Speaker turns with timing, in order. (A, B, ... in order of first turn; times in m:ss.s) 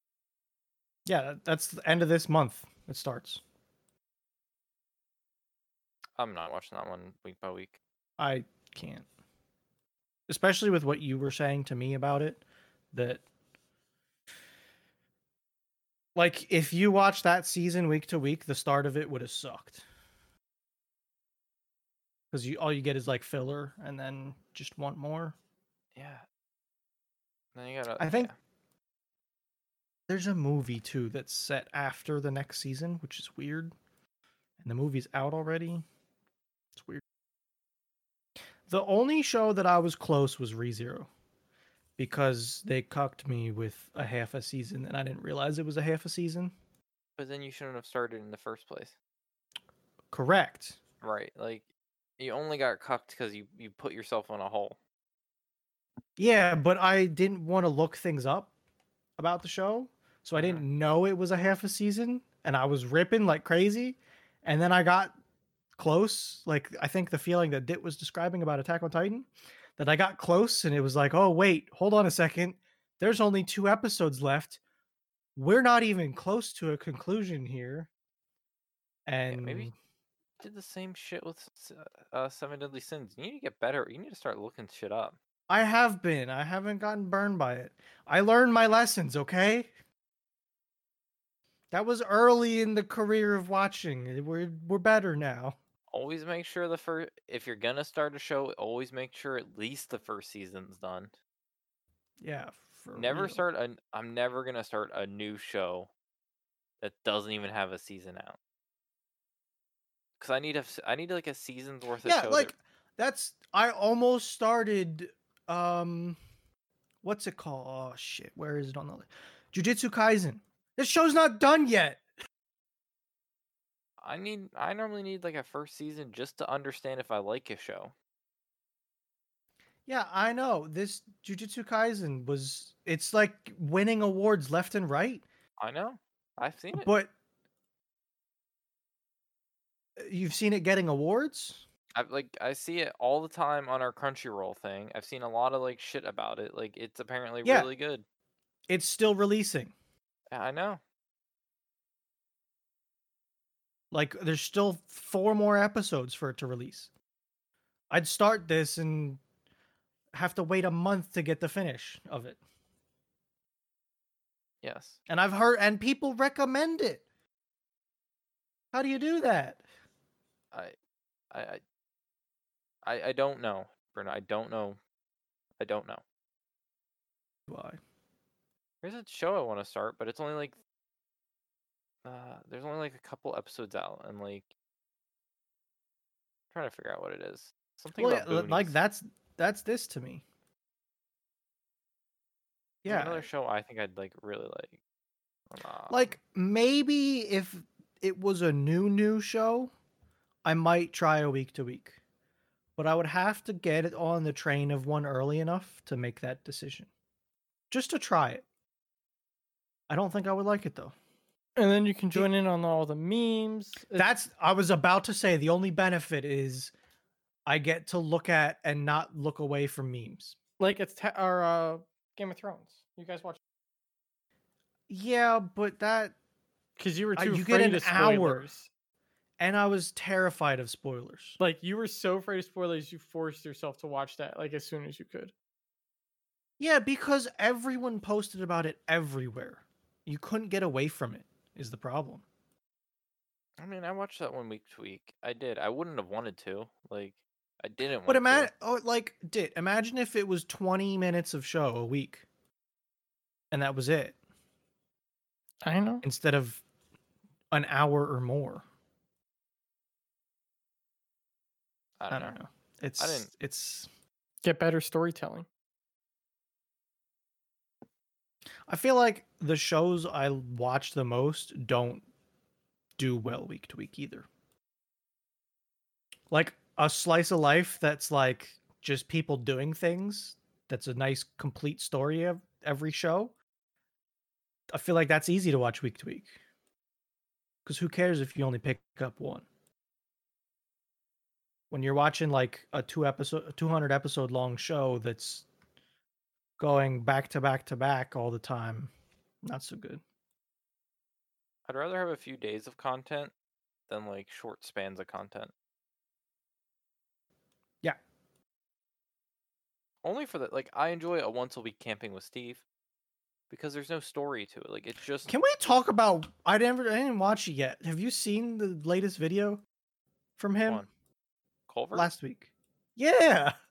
0:01.0-0:03.4 A
0:06.2-0:07.8 B
0:08.2-0:09.1 A
0:10.3-0:13.2 A
0:16.1-0:19.8 A
0:22.3-0:25.4 A
0:25.9-0:26.2 B
0:27.6-0:28.3 B
0:28.0-0:28.3 A
0:30.1-0:33.7 A
0:34.6-0:35.9 A
0:36.7-0:37.0 A
0:38.7-0:41.1 A
0:42.0-0:46.6 A
0:47.2-0:49.0 B
0:50.1-0:50.8 A
0:51.0-0:51.6 B
0:52.2-0:54.8 B
0:56.2-0:58.5 A
0:59.2-1:05.2 A
1:00.3-1:00.6 B
1:05.8-1:14.6 A
1:15.4-1:17.9 A
1:19.0-1:19.7 A
1:19.3-1:19.7 B
1:20.4-1:25.2 B
1:25.5-1:29.7 A
1:31.7-1:35.6 A
1:35.9-1:41.1 B
1:42.2-1:43.4 A
1:42.9-1:45.9 B
1:46.8-1:48.4 B
1:50.2-1:52.5 B
1:52.0-1:56.2 A
1:57.0-2:02.0 A
2:04.0-2:07.9 B
2:09.9-2:15.2 A
2:15.6-2:16.9 B
2:16.7-2:17.1 A
2:20.0-2:21.6 A
2:21.9-2:28.0 B
2:27.4-2:27.7 A
2:28.7-2:29.7 A
2:30.3-2:30.8 B
2:33.9-2:36.9 A
2:37.9-2:39.2 A
2:40.1-2:42.4 A
2:44.6-2:45.0 B
2:45.1-2:47.0 A
2:48.7-2:49.6 A
2:51.3-2:51.6 B
2:52.8-2:54.8 B
2:55.6-2:56.0 B
2:57.5-2:57.8 A
2:58.8-3:00.6 B
3:02.0-3:04.4 B
3:06.5-3:08.7 B
3:08.0-3:10.2 A
3:12.8-3:13.2 A
3:12.9-3:14.8 B
3:15.5-3:16.1 B
3:15.9-3:19.7 A
3:20.4-3:22.0 A
3:22.8-3:26.9 A
3:27.7-3:28.4 A
3:29.9-3:30.9 A
3:31.6-3:34.1 C
3:33.9-3:36.7 A
3:37.5-3:40.4 A
3:40.6-3:43.4 C
3:44.9-3:46.2 A
3:46.8-3:48.7 C
3:47.2-3:48.5 A
3:49.4-3:51.4 A
3:51.4-3:55.3 C
3:56.6-4:02.2 A
4:03.6-4:08.5 B
4:08.1-4:12.2 A
4:13.5-4:14.2 A
4:15.6-4:16.0 C
4:16.0-4:16.6 A
4:17.5-4:18.6 A
4:22.0-4:22.4 B
4:22.1-4:23.9 A
4:23.0-4:23.3 B
4:24.4-4:25.5 C
4:28.7-4:32.0 A
4:33.0-4:34.3 A
4:36.3-4:43.3 A
4:44.7-4:46.3 A
4:47.6-4:49.4 A
4:51.7-4:55.5 A
4:56.6-4:58.9 A
4:59.4-5:00.0 A
5:01.6-5:03.3 B
5:03.9-5:05.5 B
5:10.0-5:12.6 B
5:13.5-5:15.3 B
5:15.3-5:19.6 A
5:20.4-5:20.8 A
5:21.7-5:22.1 B
5:21.9-5:23.6 A